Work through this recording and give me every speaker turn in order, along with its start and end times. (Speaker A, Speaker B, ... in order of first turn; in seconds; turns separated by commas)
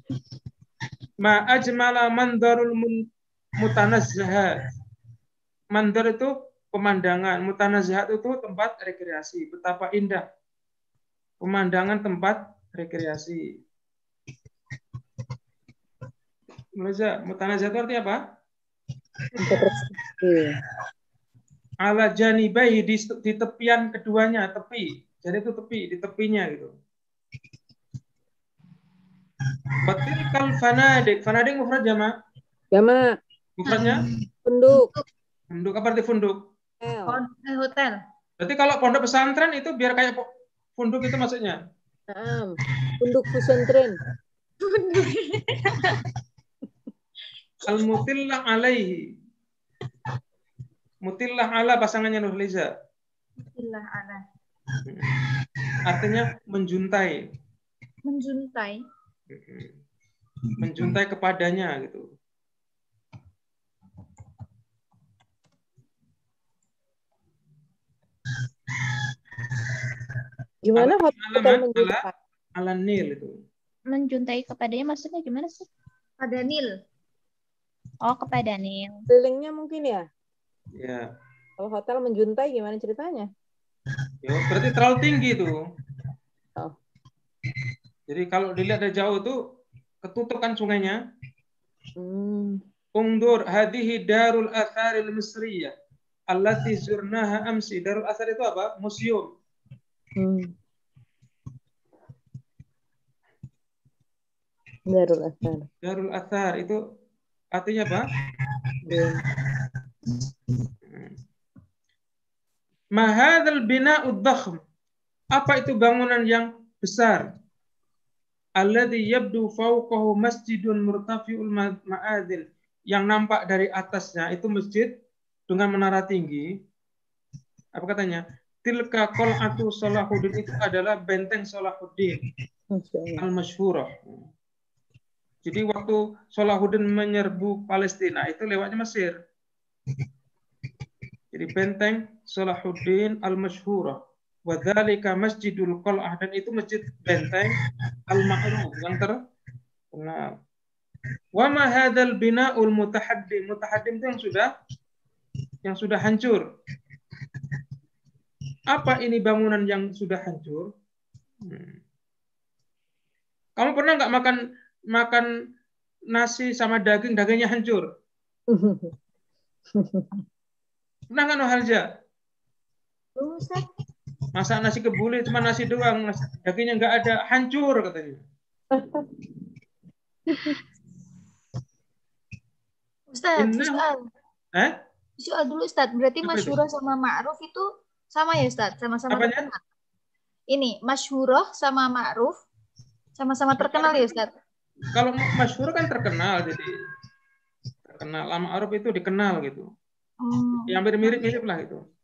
Speaker A: 1.2-3.0, Speaker A: 3.6-4.6, Speaker A: 5.7-10.3, Speaker A: 11.4-13.4, Speaker A: 16.8-18.2, Speaker B: 19.4-20.6, Speaker A: 21.8-26.7, Speaker A: 29.9-32.1, Speaker B: 32.7-33.0, Speaker A: 33.6-34.0, Speaker C: 33.7-34.0, Speaker B: 34.5-34.9, Speaker A: 35.5-36.4, Speaker B: 36.8-37.2, Speaker C: 37.1-38.0, Speaker A: 38.4-40.3, Speaker A: 40.8-41.6, Speaker B: 42.1-44.0, Speaker C: 44.7-46.0, Speaker A: 47.7-49.0, Speaker A: 51.0-52.7, Speaker C: 53.4-54.2, Speaker A: 55.9-57.2, Speaker C: 58.0-58.8, Speaker A: 59.3-59.8, Speaker A: 60.6-62.0, Speaker B: 70.7-72.1, Speaker A: 70.8-72.0, Speaker A: 72.6-73.3, Speaker D: 73.9-75.7, Speaker C: 76.2-76.7, Speaker D: 78.0-79.1, Speaker B: 79.1-80.0, Speaker A: 80.8-81.1, Speaker B: 81.6-83.3, Speaker A: 84.2-85.5, Speaker A: 88.1-89.4, Speaker A: 90.0-91.0, Speaker B: 92.0-92.6, Speaker A: 93.0-95.7, Speaker A: 96.3-99.3, Speaker B: 100.2-100.5, Speaker B: 104.9-105.7, Speaker A: 105.8-106.8, Speaker A: 107.5-108.1, Speaker B: 108.9-109.2, Speaker A: 110.9-111.2, Speaker A: 113.0-114.6, Speaker A: 115.3-117.2, Speaker A: 118.6-124.9, Speaker A: 125.5-126.5, Speaker A: 127.8-132.2, Speaker B: 132.7-133.2, Speaker A: 133.2-134.2, Speaker A: 135.4-139.1, Speaker A: 141.3-147.6, Speaker A: 148.1-149.2, Speaker A: 149.9-150.2, Speaker A: 151.3-154.5, Speaker A: 155.7-156.4, Speaker A: 158.7-160.7, Speaker A: 161.5-161.8, Speaker A: 163.6-164.4, Speaker A: 164.9-165.3, Speaker A: 166.1-167.8, Speaker B: 168.5-168.9, Speaker B: 169.7-170.2, Speaker A: 171.1-171.8, Speaker C: 173.2-173.7, Speaker A: 174.4-178.2, Speaker B: 178.7-179.0, Speaker C: 183.1-184.0, Speaker A: 183.4-183.8, Speaker C: 185.2-189.6, Speaker A: 186.2-186.6, Speaker A: 189.1-189.5, Speaker C: 190.5-192.3, Speaker C: 193.2-194.3, Speaker A: 193.6-194.0, Speaker A: 194.9-196.7, Speaker A: 197.9-199.7, Speaker C: 200.2-201.4, Speaker A: 200.7-201.8